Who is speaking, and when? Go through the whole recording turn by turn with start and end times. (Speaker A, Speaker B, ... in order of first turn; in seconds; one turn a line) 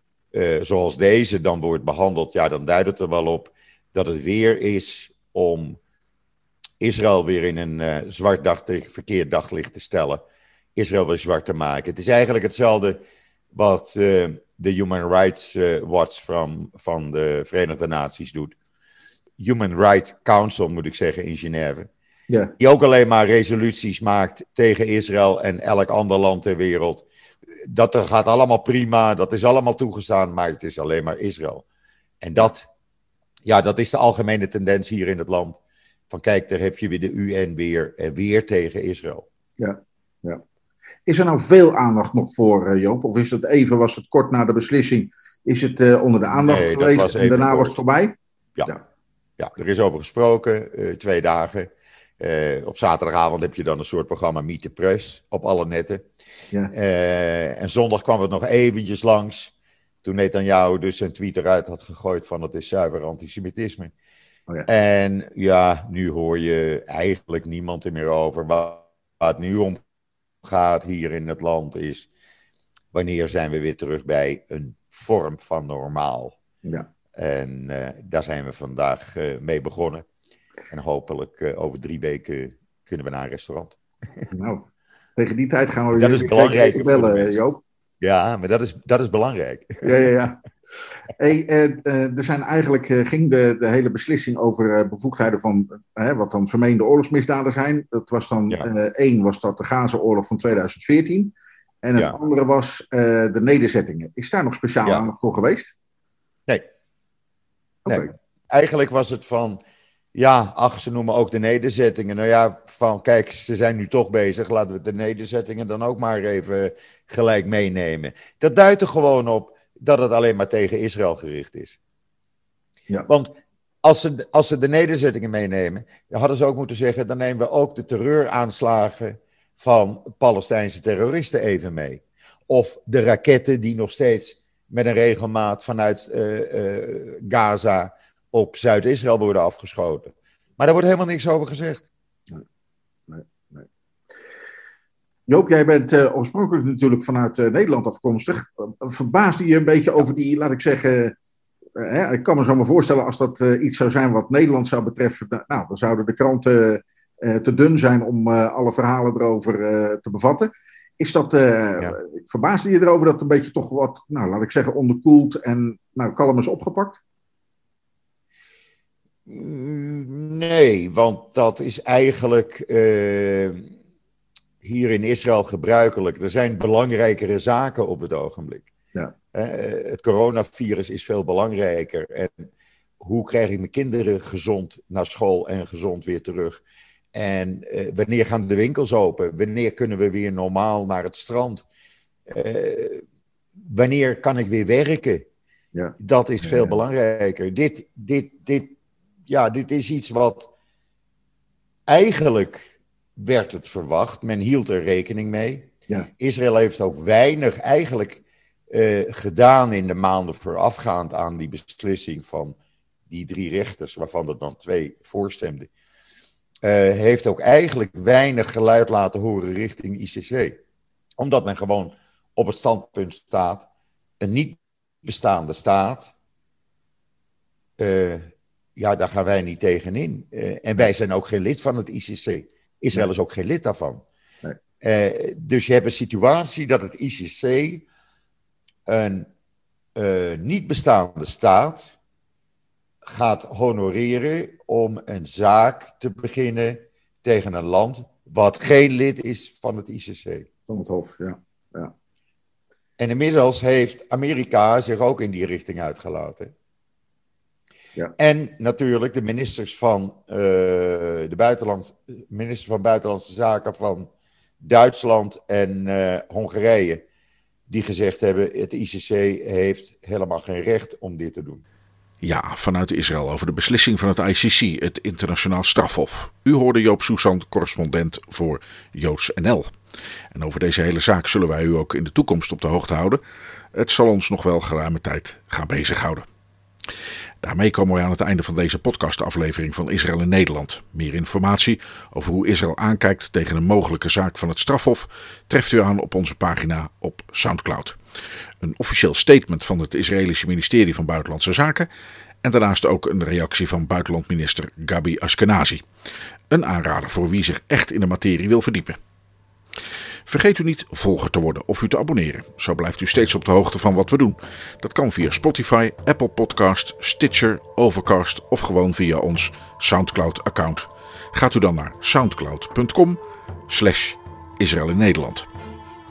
Speaker A: 0.3-5.8
Speaker A: 6.8-10.2
Speaker A: 10.8-13.0
Speaker A: 13.5-18.6
Speaker A: 19.4-21.9
Speaker A: 22.6-27.1
Speaker A: 27.7-31.6
Speaker A: 32.2-32.7
Speaker A: 33.5-35.6
Speaker A: 36.1-39.3
Speaker B: 39.6-40.4
Speaker B: 41.1-48.2
Speaker A: 46.3-47.8
Speaker A: 49.4-56.0
Speaker A: 56.7-59.5
Speaker A: 60.0-63.9
Speaker A: 64.7-69.8
Speaker A: 70.4-72.1
Speaker A: 72.9-76.4
Speaker A: 77.2-80.1
Speaker A: 80.7-84.3
Speaker B: 84.3-87.6
Speaker A: 85.9-87.4
Speaker A: 88.0-90.1
Speaker B: 89.9-90.4
Speaker B: 91.2-105.7
Speaker B: 107.9-108.1
Speaker A: 107.9-109.6
Speaker A: 110.2-121.8
Speaker A: 123.1-141.9
Speaker B: 143.1-143.7
Speaker B: 145.3-151.2
Speaker B: 151.8-167.0
Speaker A: 169.3-173.7
Speaker A: 174.6-178.7
Speaker A: 179.3-182.5
Speaker A: 183.0-186.6
Speaker A: 187.1-191.7
Speaker A: 192.3-193.0
Speaker A: 193.7-195.3
Speaker B: 195.7-196.8
Speaker A: 196.0-198.7
Speaker A: 199.3-200.5
Speaker A: 201.9-212.6
Speaker A: 213.1-215.7
Speaker A: 216.6-220.6
Speaker A: 221.2-223.7
Speaker A: 224.2-226.1
Speaker A: 227.8-234.0
Speaker A: 234.8-237.8
Speaker A: 238.9-239.3
Speaker A: 240.0-241.9
Speaker A: 243.1-250.5
Speaker B: 250.7-251.9
Speaker A: 253.0-256.5
Speaker A: 258.2-264.1
Speaker A: 264.6-267.0
Speaker A: 267.7-271.6
Speaker C: 272.2-279.7
Speaker C: 280.3-283.2
Speaker C: 283.7-286.3
Speaker C: 287.4-298.0
Speaker C: 298.6-301.9
Speaker C: 302.4-305.8
Speaker C: 306.5-309.0
Speaker C: 310.3-325.5